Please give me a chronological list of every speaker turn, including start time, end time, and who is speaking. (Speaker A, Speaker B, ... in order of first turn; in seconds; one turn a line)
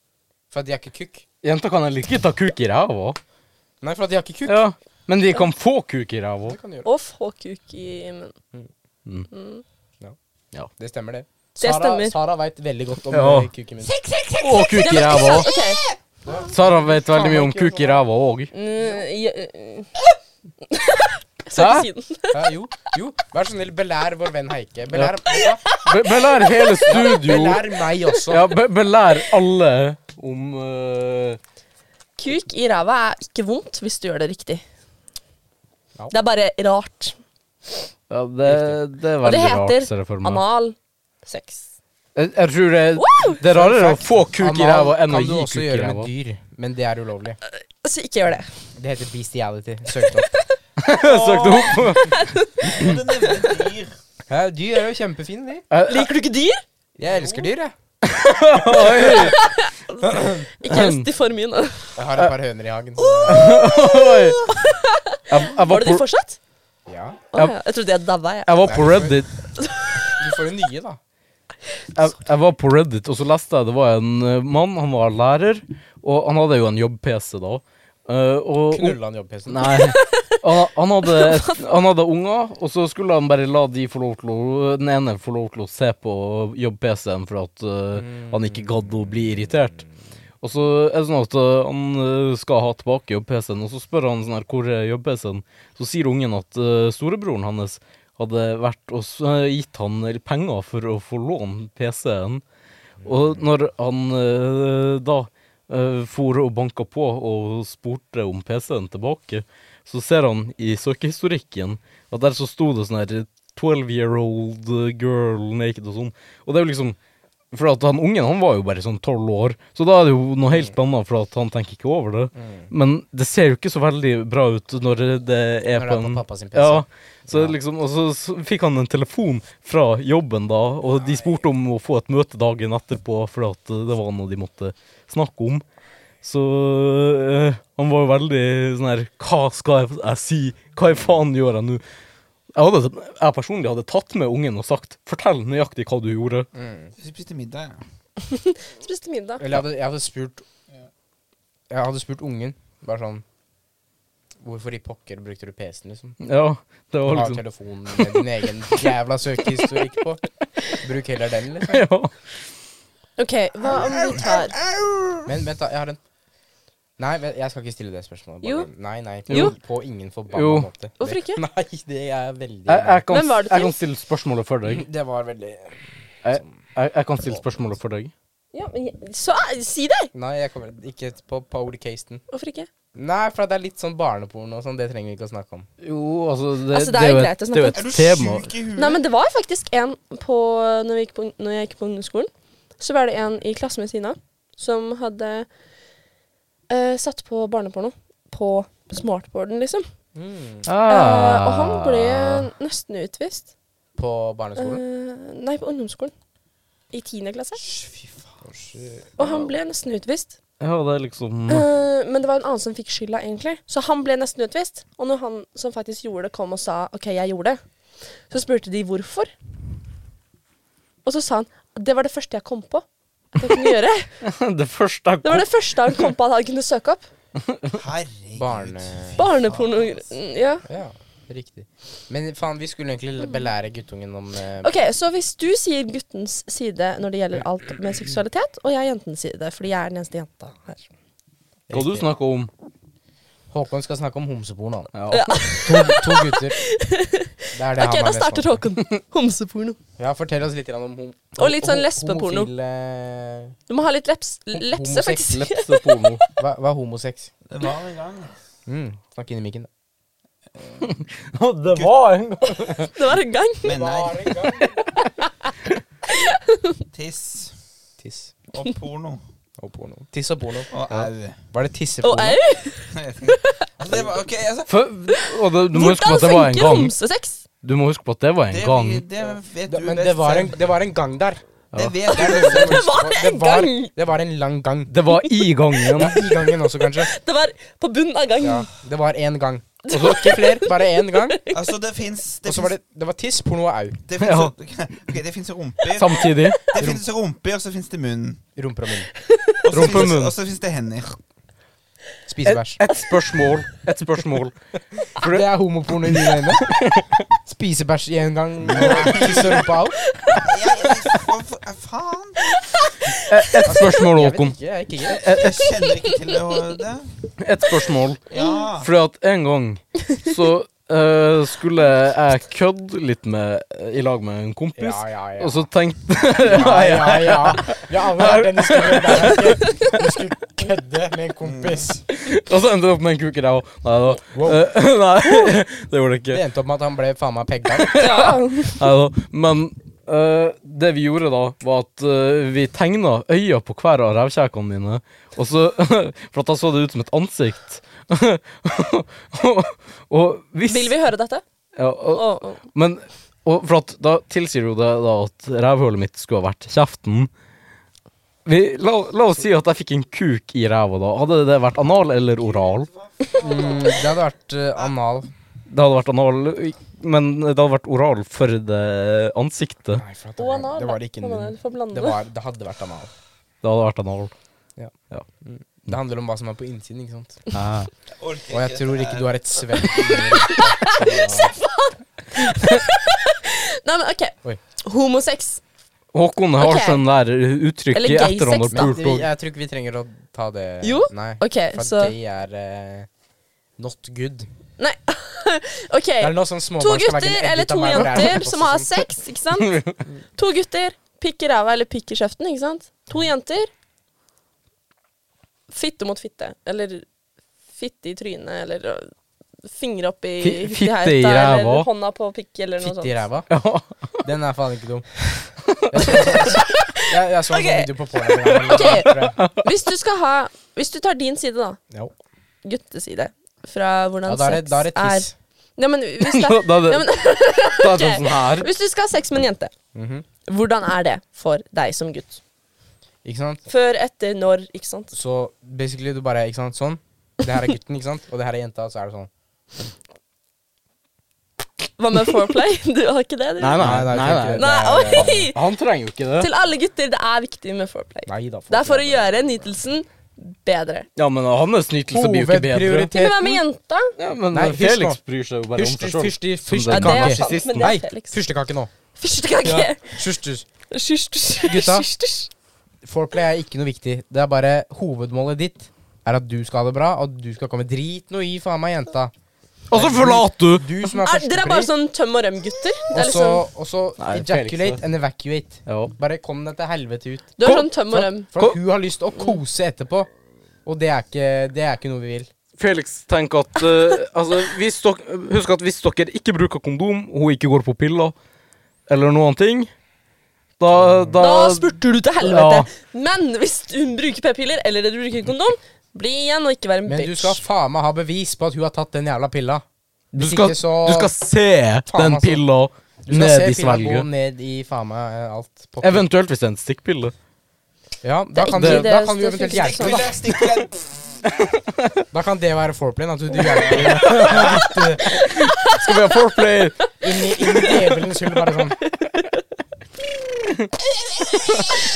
Speaker A: 0.5-1.2
Speaker B: 1.4-3.2
Speaker A: 3.8-4.7
Speaker B: 4.5-6.6
Speaker A: 6.5-6.9
Speaker C: 6.8-8.3
Speaker C: 9.3-9.6
Speaker A: 10.8-14.0
Speaker C: 11.6-12.1
Speaker B: 13.1-13.5
Speaker C: 13.9-15.8
Speaker B: 14.4-15.5
Speaker D: 15.4-15.7
Speaker A: 16.2-18.1
Speaker B: 16.5-18.5
Speaker C: 18.5-19.9
Speaker C: 20.7-22.4
Speaker B: 21.5-21.9
Speaker A: 22.3-25.7
Speaker C: 25.3-27.1
Speaker B: 25.8-27.6
Speaker A: 26.9-28.5
Speaker B: 28.3-31.4
Speaker C: 32.2-34.6
Speaker C: 36.1-37.2
Speaker B: 38.1-40.4
Speaker A: 38.5-38.8
Speaker C: 39.2-41.7
Speaker B: 42.2-46.1
Speaker C: 43.0-43.4
Speaker A: 43.5-47.4
Speaker C: 47.8-48.5
Speaker A: 48.8-50.3
Speaker C: 49.9-50.5
Speaker B: 50.8-52.3
Speaker D: 50.9-53.9
Speaker C: 52.0-52.7
Speaker A: 54.3-55.7
Speaker B: 55.7-56.1
Speaker C: 55.9-56.6
Speaker A: 57.0-57.7
Speaker D: 57.0-57.5
Speaker B: 58.0-59.4
Speaker C: 58.8-62.0
Speaker A: 60.0-60.5
Speaker B: 60.7-61.1
Speaker A: 62.0-63.6
Speaker C: 63.0-66.4
Speaker B: 63.3-64.5
Speaker B: 65.3-66.0
Speaker A: 66.9-67.2
Speaker C: 67.3-68.7
Speaker B: 68.5-69.3
Speaker A: 68.7-69.2
Speaker C: 69.6-70.3
Speaker A: 70.1-71.0
Speaker B: 71.9-89.8
Speaker A: 78.7-79.9
Speaker C: 79.6-80.5
Speaker C: 81.0-81.6
Speaker A: 88.0-89.8
Speaker B: 90.4-102.4
Speaker A: 103.0-103.4
Speaker B: 103.0-117.0
Speaker B: 117.5-135.6
Speaker A: 122.3-122.7
Speaker A: 125.7-127.5
Speaker B: 136.2-141.8
Speaker B: 142.5-146.5
Speaker A: 146.6-146.9
Speaker D: 147.0-147.8
Speaker C: 148.2-149.5
Speaker A: 149.4-150.4
Speaker A: 151.7-153.2
Speaker A: 154.4-156.2
Speaker B: 156.2-158.9
Speaker A: 157.1-161.9
Speaker B: 161.7-162.4
Speaker C: 163.2-164.6
Speaker D: 163.6-165.3
Speaker A: 165.2-166.0
Speaker A: 167.0-173.0
Speaker C: 168.4-168.7
Speaker B: 169.3-169.5
Speaker B: 170.3-170.7
Speaker C: 171.0-171.4
Speaker B: 172.7-174.9
Speaker C: 173.1-173.8
Speaker A: 174.7-175.8
Speaker B: 176.2-178.1
Speaker C: 178.5-180.1
Speaker A: 180.1-182.2
Speaker C: 182.3-182.7
Speaker A: 182.9-185.7
Speaker B: 185.8-188.5
Speaker C: 186.7-187.9
Speaker D: 187.7-189.0
Speaker C: 188.8-195.5
Speaker C: 196.7-199.9
Speaker A: 200.2-200.7
Speaker B: 200.7-202.5
Speaker C: 200.9-203.5
Speaker A: 204.0-204.8
Speaker C: 204.6-206.1
Speaker C: 206.9-207.6
Speaker D: 207.6-208.2
Speaker A: 208.4-209.1
Speaker C: 209.2-210.4
Speaker B: 210.6-211.7
Speaker C: 211.5-217.6
Speaker C: 218.3-219.3
Speaker C: 221.1-224.1
Speaker B: 224.2-226.1
Speaker C: 225.2-227.1
Speaker B: 227.4-227.7
Speaker D: 227.7-230.1
Speaker A: 228.4-229.4
Speaker C: 229.2-230.6
Speaker A: 230.6-234.7
Speaker C: 234.6-240.8
Speaker A: 241.7-242.1
Speaker B: 241.7-242.5
Speaker A: 243.5-244.9
Speaker B: 244.9-245.4
Speaker C: 245.1-249.8
Speaker A: 245.6-246.6
Speaker A: 247.5-248.6
Speaker A: 250.0-253.6
Speaker C: 251.4-252.5
Speaker C: 253.7-256.3
Speaker A: 254.5-255.4
Speaker B: 255.3-256.2
Speaker A: 256.4-257.3
Speaker D: 257.5-258.3
Speaker A: 258.7-259.7
Speaker B: 260.8-262.9
Speaker C: 262.9-263.8
Speaker D: 263.6-264.4
Speaker A: 263.6-264.8
Speaker C: 266.1-266.8
Speaker D: 266.9-267.5
Speaker A: 268.0-268.3
Speaker D: 268.5-269.2
Speaker A: 269.6-272.4
Speaker D: 270.7-271.4
Speaker C: 272.0-273.7
Speaker D: 272.9-274.7
Speaker B: 274.7-276.9
Speaker C: 275.2-277.4
Speaker B: 277.6-279.1
Speaker D: 278.5-280.6
Speaker A: 279.7-281.4
Speaker D: 281.8-282.9
Speaker A: 282.1-284.9
Speaker C: 282.1-283.9
Speaker B: 284.9-286.2
Speaker C: 285.1-288.7
Speaker A: 285.9-287.1
Speaker A: 288.4-291.4
Speaker C: 289.9-291.7
Speaker D: 291.5-292.8
Speaker A: 292.4-294.0
Speaker D: 294.1-298.4
Speaker B: 294.2-294.5
Speaker B: 295.9-296.6
Speaker A: 296.8-297.1
Speaker A: 298.6-299.1
Speaker C: 299.2-299.6
Speaker D: 299.6-301.2
Speaker B: 299.7-300.4
Speaker A: 302.3-302.8
Speaker B: 302.4-304.6
Speaker B: 305.1-305.5
Speaker A: 305.2-306.8
Speaker B: 306.0-307.2
Speaker A: 307.5-310.0
Speaker D: 308.6-309.7
Speaker C: 310.1-310.5
Speaker D: 310.3-312.5
Speaker C: 312.5-313.3
Speaker B: 313.2-315.7
Speaker A: 313.6-315.3
Speaker D: 315.3-317.1
Speaker B: 317.4-318.2
Speaker D: 318.3-318.9
Speaker C: 318.3-318.7
Speaker B: 318.8-329.6
Speaker A: 324.8-325.7
Speaker A: 326.4-332.0
Speaker D: 331.4-331.9
Speaker B: 332.1-336.4
Speaker A: 334.3-334.7
Speaker A: 336.3-338.1
Speaker B: 337.8-351.0
Speaker C: 337.9-338.8
Speaker C: 350.7-351.4
Speaker B: 351.8-357.3
Speaker C: 352.1-352.6
Speaker B: 358.4-362.9
Speaker D: 362.4-364.1
Speaker A: 363.4-365.3
Speaker B: 365.7-370.0
Speaker A: 370.0-373.1
Speaker C: 370.4-372.2
Speaker B: 373.6-374.3
Speaker A: 374.8-377.4
Speaker B: 377.5-377.9
Speaker D: 378.2-379.9
Speaker A: 378.5-381.6
Speaker C: 380.1-385.6
Speaker B: 386.1-389.3
Speaker C: 386.6-387.0
Speaker C: 387.9-388.9
Speaker A: 388.7-393.1
Speaker C: 390.8-392.1
Speaker A: 393.8-394.5
Speaker C: 394.8-399.8
Speaker A: 396.2-399.1
Speaker B: 399.6-400.0
Speaker C: 400.4-403.7
Speaker C: 405.7-407.1
Speaker C: 407.8-409.1
Speaker C: 409.7-413.2
Speaker B: 410.4-411.9
Speaker A: 412.8-413.5
Speaker B: 413.5-414.1
Speaker A: 414.2-415.1
Speaker B: 415.7-416.2
Speaker A: 415.9-419.4
Speaker C: 416.1-421.8
Speaker B: 418.8-419.7
Speaker C: 422.6-429.7
Speaker A: 424.3-425.3
Speaker B: 426.2-427.1
Speaker B: 427.8-428.7
Speaker A: 429.9-430.3
Speaker C: 430.5-432.4
Speaker A: 433.2-433.7
Speaker C: 433.7-435.1
Speaker A: 435.1-439.3
Speaker C: 442.0-445.6
Speaker B: 443.6-446.5
Speaker A: 443.8-445.5
Speaker C: 446.4-451.1
Speaker A: 448.3-449.6
Speaker B: 451.2-453.1
Speaker A: 452.1-453.6
Speaker C: 453.1-454.1
Speaker B: 454.2-457.9
Speaker A: 454.5-455.2
Speaker A: 455.7-458.9
Speaker C: 456.9-458.4
Speaker C: 459.2-460.2
Speaker A: 459.6-460.7
Speaker C: 460.9-462.5
Speaker A: 461.6-462.1
Speaker A: 463.0-469.3
Speaker B: 469.9-470.9
Speaker A: 469.9-471.9
Speaker C: 471.1-473.6
Speaker A: 473.1-480.3
Speaker B: 474.2-475.0
Speaker B: 475.9-476.1
Speaker C: 477.6-478.5
Speaker B: 477.6-477.9
Speaker A: 480.9-482.5
Speaker B: 482.8-488.3
Speaker B: 489.1-489.9
Speaker B: 490.8-492.9
Speaker A: 491.0-491.3
Speaker C: 491.4-497.6
Speaker A: 497.1-499.8
Speaker B: 500.3-504.3
Speaker A: 500.4-501.3
Speaker A: 502.1-502.6
Speaker A: 503.2-506.3
Speaker B: 506.0-507.3
Speaker A: 508.2-510.4
Speaker C: 508.6-510.4
Speaker B: 508.7-509.1
Speaker D: 509.7-511.4
Speaker B: 511.7-512.2
Speaker A: 512.3-515.5
Speaker B: 513.9-517.0
Speaker C: 515.4-516.2
Speaker A: 517.2-519.0
Speaker C: 517.6-518.1
Speaker B: 521.6-522.0